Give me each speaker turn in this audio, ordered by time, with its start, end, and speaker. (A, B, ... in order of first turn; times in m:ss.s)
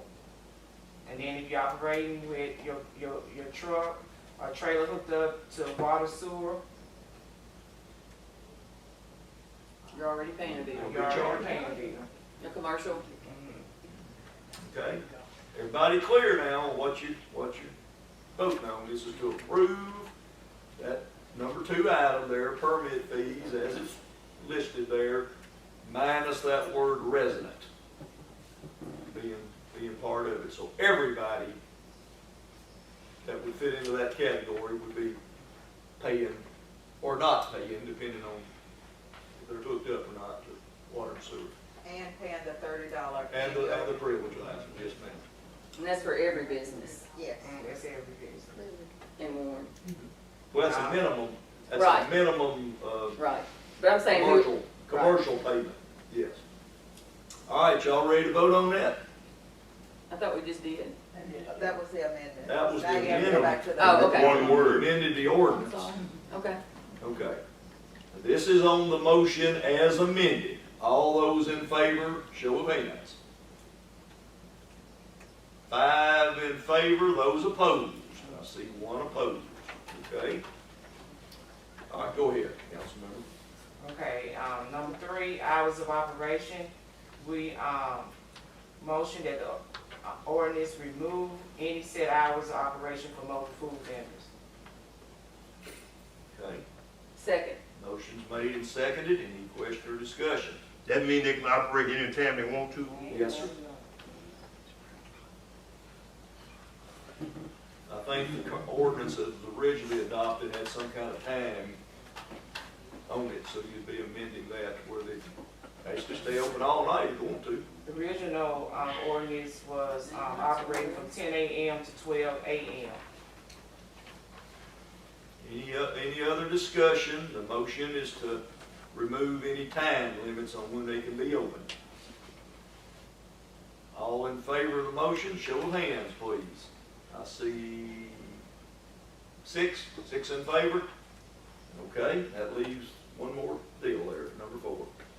0:01.0-0:06.6 A
0:09.9-0:11.6 B
0:10.6-0:11.5 C
0:10.7-0:12.1 A
0:12.4-0:13.1 B
0:13.2-0:13.6 A
0:14.6-0:15.0 C
0:15.5-0:17.7 C
0:18.3-0:20.1 C
0:20.8-0:25.3 C
0:25.8-0:27.7 C
0:29.1-0:31.6 C
0:33.2-0:35.2 C
0:36.0-0:36.4 C
0:37.0-0:38.5 C
0:39.4-0:41.5 C
0:41.8-0:44.3 D
0:43.2-0:45.2 C
0:45.8-0:47.1 B
0:47.1-0:47.5 C
0:47.4-0:48.6 A
0:49.2-0:49.7 B
0:49.9-0:53.2 C
0:50.5-0:51.1 A
0:51.7-0:52.1 B
0:53.2-0:55.2 B
0:54.1-0:56.4 C
0:57.5-0:59.0 C
1:00.1-1:01.0 B
1:01.3-1:05.9 C
1:01.6-1:04.5 D
1:03.0-1:03.6 A
1:03.8-1:06.6 B
1:03.8-1:04.9 E
1:07.0-1:07.4 C
1:08.1-1:13.2 C
1:15.7-1:20.4 C
1:21.9-1:23.2 C
1:23.8-1:28.1 A
1:28.8-1:34.3 A
1:36.3-1:36.6 C
1:37.2-1:37.6 B
1:37.8-1:40.6 C
1:40.8-1:43.1 E
1:42.8-1:43.9 A
1:43.1-1:43.5 C
1:47.9-1:51.8 C
1:53.1-1:55.2 C
1:55.8-1:57.6 C
1:57.8-2:03.0 A
2:00.0-2:01.1 B
2:05.4-2:11.7 C
2:13.9-2:18.4 C
2:19.4-2:20.9 C
2:21.7-2:24.9 C